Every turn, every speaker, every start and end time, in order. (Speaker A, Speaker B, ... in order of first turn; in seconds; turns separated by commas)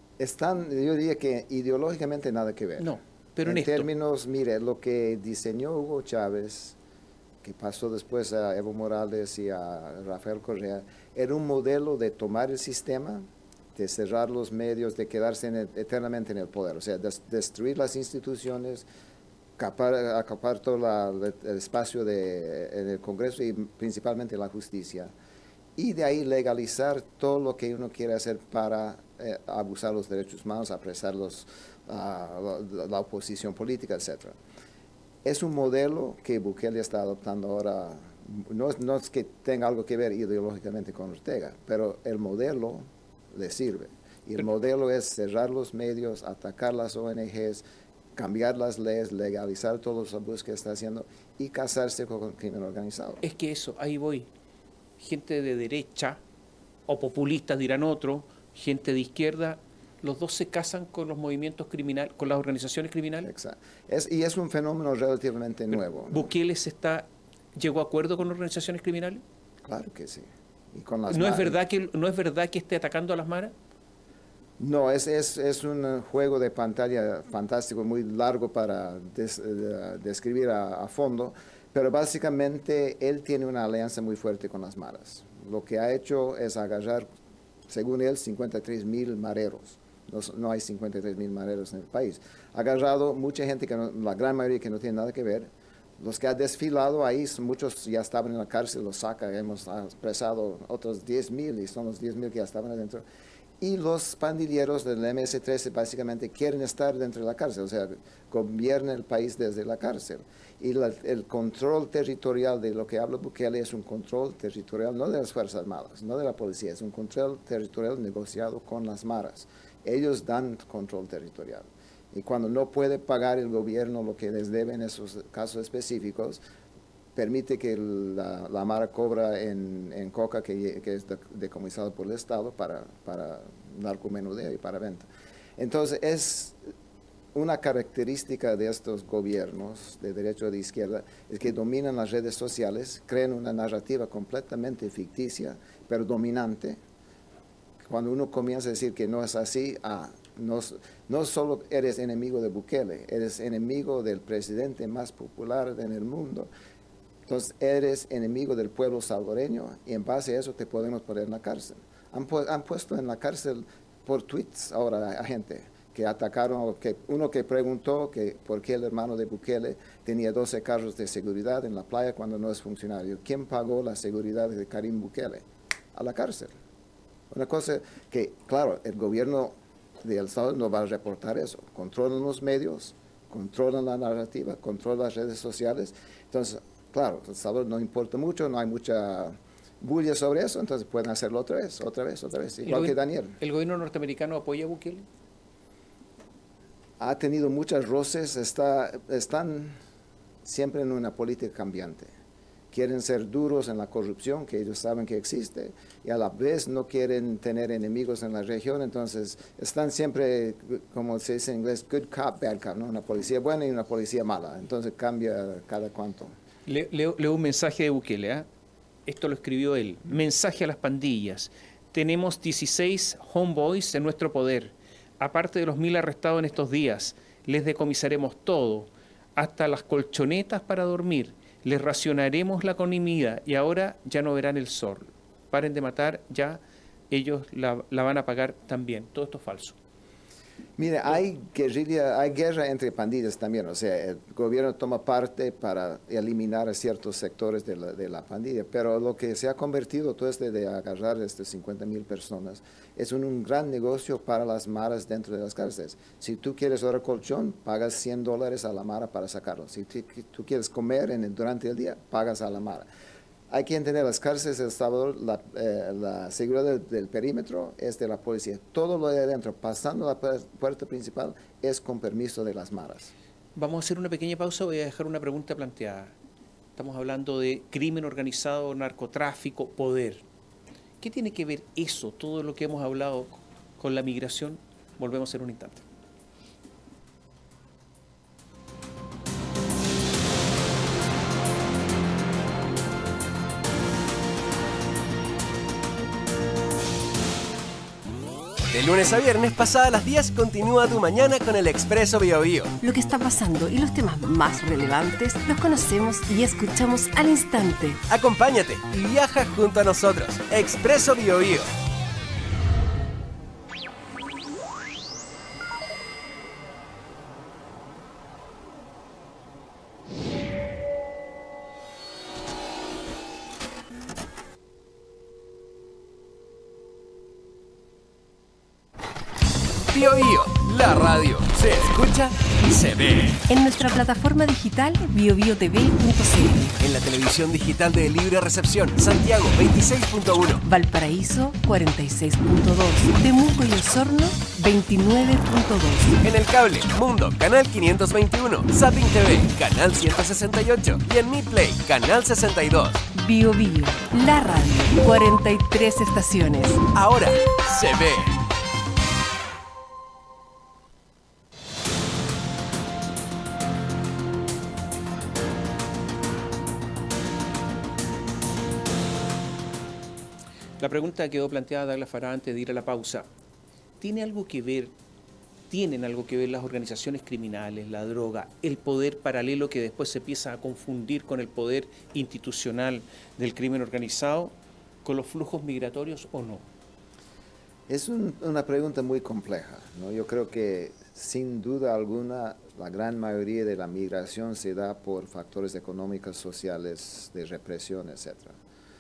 Speaker A: 0.2-6.8, Speaker B: 2.8-3.9, Speaker A: 7.4-18.9, Speaker A: 19.6-25.1, Speaker A: 25.8-34.4, Speaker A: 35.2-47.6, Speaker A: 48.2-53.2, Speaker B: 53.2-54.3, Speaker B: 55.0-56.2, Speaker B: 56.9-63.3, Speaker A: 63.2-66.3, Speaker B: 66.1-69.2, Speaker A: 69.7-71.6, Speaker B: 71.1-73.5, Speaker A: 74.6-87.1, Speaker A: 87.7-103.0, Speaker A: 103.6-126.4, Speaker A: 127.2-136.6, Speaker A: 137.3-146.8, Speaker A: 147.8-156.5, Speaker A: 157.3-176.6, Speaker A: 177.3-193.4, Speaker B: 192.7-195.1, Speaker A: 197.0-199.8, Speaker A: 200.4-202.1, Speaker A: 202.7-216.3, Speaker B: 216.7-218.5, Speaker B: 219.1-239.8, Speaker A: 240.8-262.9, Speaker A: 263.5-273.1, Speaker B: 273.6-276.1, Speaker B: 276.8-280.2, Speaker B: 281.0-285.8, Speaker C: 298.7-302.8, Speaker D: 302.8-308.0, Speaker C: 308.1-311.7, Speaker C: 329.9-333.4, Speaker D: 333.5-336.8, Speaker C: 336.8-340.6, Speaker D: 340.6-346.2, Speaker C: 346.2-353.0, Speaker D: 353.1-356.9, Speaker C: 356.9-358.4, Speaker B: 370.8-373.3, Speaker B: 374.0-374.9, Speaker B: 375.7-384.5, Speaker B: 385.0-386.7, Speaker A: 387.9-398.6